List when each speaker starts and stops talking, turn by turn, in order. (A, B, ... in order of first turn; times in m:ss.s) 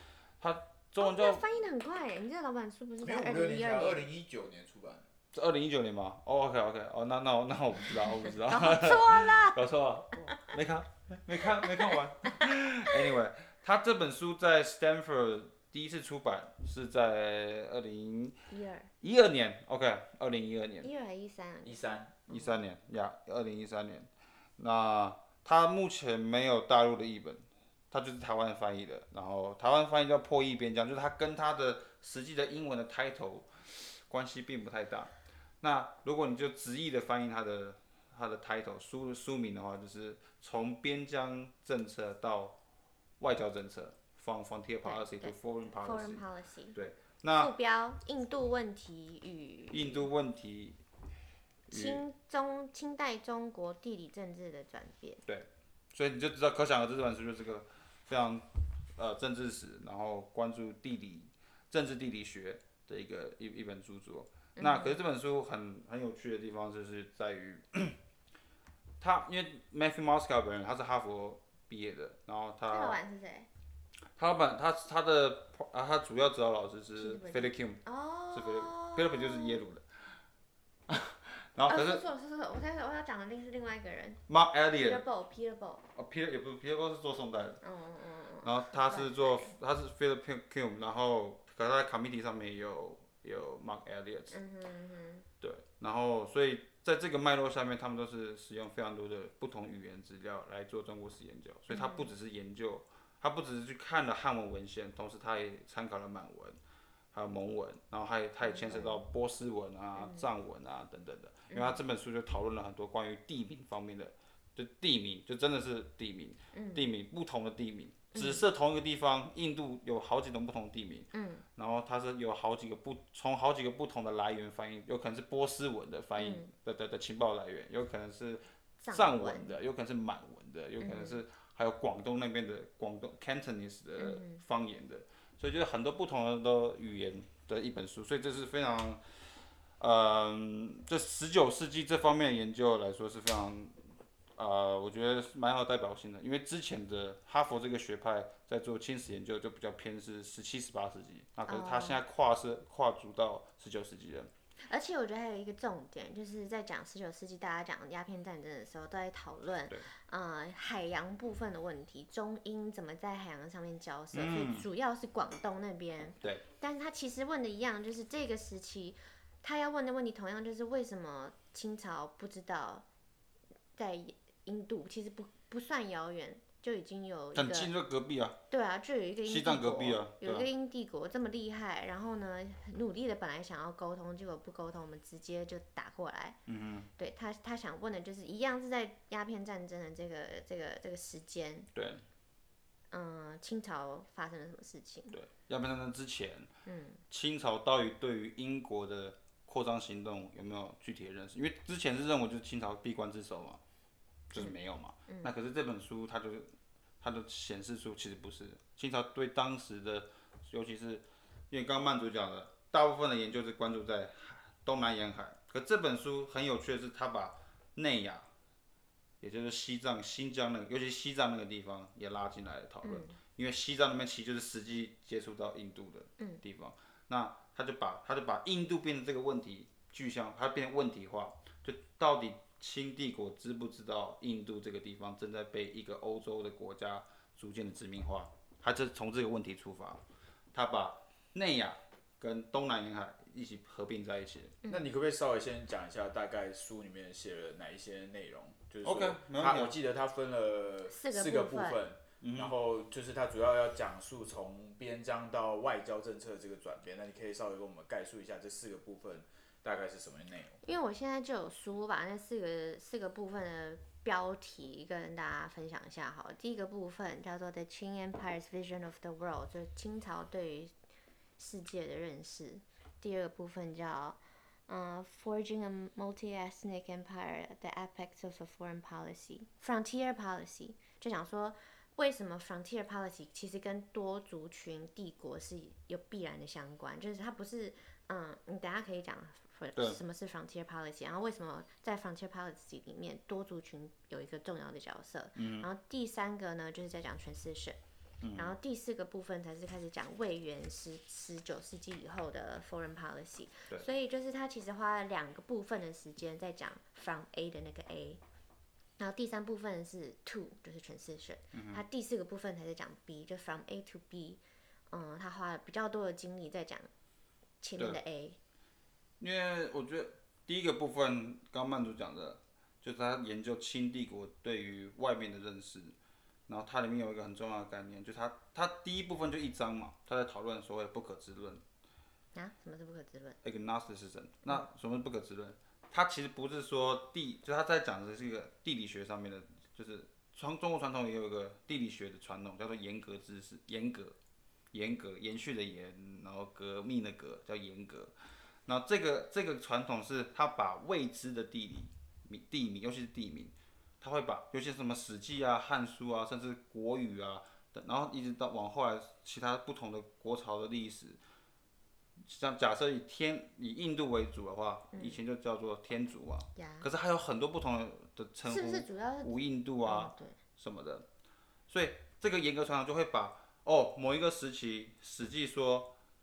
0:00.4-0:01.4 A
0:01.0-0:04.0 B
0:03.0-0:05.0 C
0:05.3-0:18.4 A
0:08.2-0:09.6 B
0:10.2-0:10.5 B
0:11.6-0:12.3 B
0:18.5-0:18.9 B
0:19.0-0:20.9 A
0:20.8-0:22.6 B
0:21.6-0:22.2 C
0:22.3-0:42.6 A
0:43.2-0:46.2 A
0:44.8-0:46.8 B
0:46.7-0:47.5 A
0:47.4-0:50.1 B
0:49.7-0:50.8 A
0:51.7-0:55.2 B
0:51.7-0:52.0 A
0:55.2-1:08.0 A
1:04.6-1:05.0 B
1:09.0-1:13.0 A
1:12.7-1:13.5 B
1:14.2-1:19.8 A
1:17.0-1:19.6 B
1:20.9-1:22.0 A
1:21.7-1:25.8 B
1:24.3-1:25.0 A
1:25.9-1:27.6 A
1:27.6-1:29.5 B
1:28.4-1:34.4 A
1:34.3-1:35.2 B
1:35.4-1:46.6 A
1:41.7-1:42.1 B
1:47.1-2:19.0 A
1:48.4-1:49.0 B
1:50.0-1:50.3 B
1:51.5-1:51.8 B
1:56.5-1:56.8 B
1:58.1-1:58.4 B
2:01.1-2:01.4 B
2:06.2-2:06.5 B
2:08.8-2:09.5 B
2:10.8-2:11.2 B
2:14.0-2:14.4 B
2:19.8-2:23.8 A
2:24.4-2:34.3 A
2:31.5-2:32.0 B
2:34.7-2:52.8 B
2:44.1-2:44.7 A
2:53.8-2:57.7 B
2:57.3-2:58.4 A
2:58.5-3:06.4 B
2:59.2-3:00.5 A
3:06.5-3:06.9 A
3:07.0-3:11.7 B
3:11.7-3:12.0 A
3:12.9-3:15.1 B
3:15.1-3:16.5 A
3:16.6-3:17.0 B
3:17.1-3:23.6 A
3:24.3-3:25.3 B
3:24.3-3:38.3 A
3:39.2-4:00.0 A
3:42.8-3:43.2 B
4:00.5-4:04.6 A
4:04.7-4:20.6 C
4:08.8-4:09.8 A
4:10.9-4:11.8 B
4:12.2-4:12.5 A
4:20.6-4:30.7 B
4:31.4-4:57.8 B
4:55.4-4:55.7 A
4:58.2-4:58.5 A
4:58.3-5:08.2 B
5:09.0-5:16.9 B
5:11.5-5:11.8 A
5:17.6-5:18.4 B
5:19.2-5:26.0 A
5:26.5-5:31.6 A
5:32.3-5:33.4 B
5:33.4-5:44.2 A
5:44.7-5:48.1 A
5:48.6-6:01.2 A
6:02.2-6:11.0 A
6:04.9-6:05.2 B
6:06.5-6:06.9 B
6:08.4-6:10.4 B
6:11.7-6:15.9 A